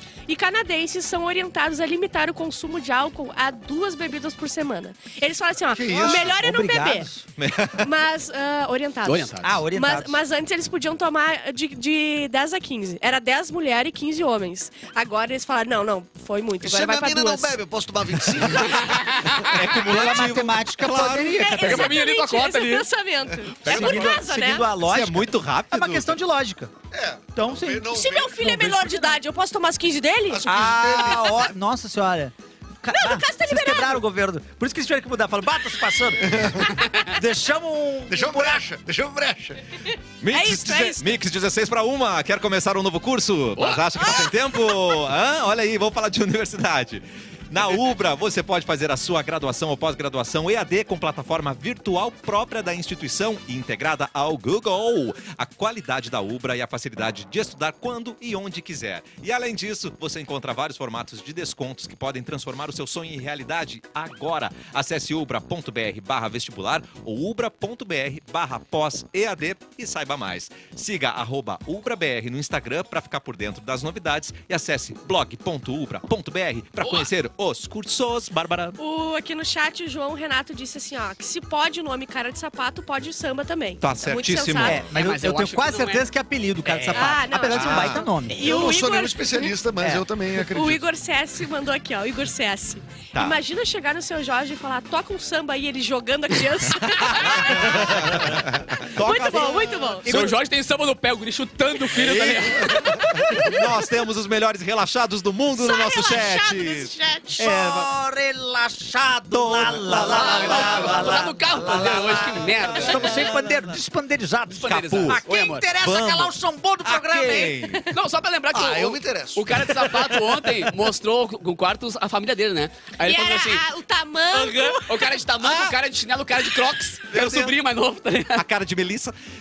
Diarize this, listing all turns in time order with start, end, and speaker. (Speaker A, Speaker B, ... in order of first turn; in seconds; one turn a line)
Speaker A: 0.3-7.1
Speaker B: 5.7-6.3
Speaker C: 5.9-7.2
Speaker D: 7.4-7.9
Speaker A: 7.8-17.6
Speaker E: 9.0-9.6
Speaker C: 9.4-10.2
Speaker B: 16.6-19.3
Speaker E: 18.9-19.5
Speaker D: 19.4-21.5
Speaker C: 19.6-21.9
Speaker A: 21.2-24.7
Speaker E: 21.6-22.9
Speaker C: 23.6-26.7
Speaker D: 24.8-26.1
Speaker B: 26.9-28.7
Speaker C: 27.3-29.2
Speaker A: 27.9-31.1
Speaker B: 30.3-31.4
Speaker C: 30.4-38.6
Speaker A: 32.9-34.0
Speaker B: 36.2-36.7
Speaker B: 38.1-39.8
Speaker D: 40.2-78.8
Speaker A: 40.3-41.1
Speaker E: 43.6-44.0
Speaker A: 44.0-44.3
Speaker A: 76.8-77.1
Speaker A: 78.8-84.8
Speaker D: 83.8-84.9
Speaker C: 84.6-88.5
Speaker E: 84.9-86.1
Speaker E: 86.6-87.2
Speaker A: 86.9-89.5
Speaker D: 87.5-88.0
Speaker B: 88.4-90.8
Speaker A: 90.5-98.3
Speaker D: 93.1-93.4
Speaker D: 96.8-100.3
Speaker B: 97.9-98.7
Speaker A: 99.0-100.0
Speaker E: 100.0-103.0
Speaker D: 101.9-107.9
Speaker A: 105.5-107.4
Speaker C: 107.4-117.7
Speaker D: 109.3-113.6
Speaker E: 110.0-113.3
Speaker E: 114.5-115.7
Speaker D: 114.7-115.2
Speaker D: 115.8-116.3
Speaker D: 116.8-117.9
Speaker E: 117.9-123.6
Speaker B: 118.5-120.1
Speaker A: 123.0-125.2
Speaker E: 124.3-128.4
Speaker D: 125.4-125.8
Speaker D: 127.1-127.6
Speaker D: 128.3-129.1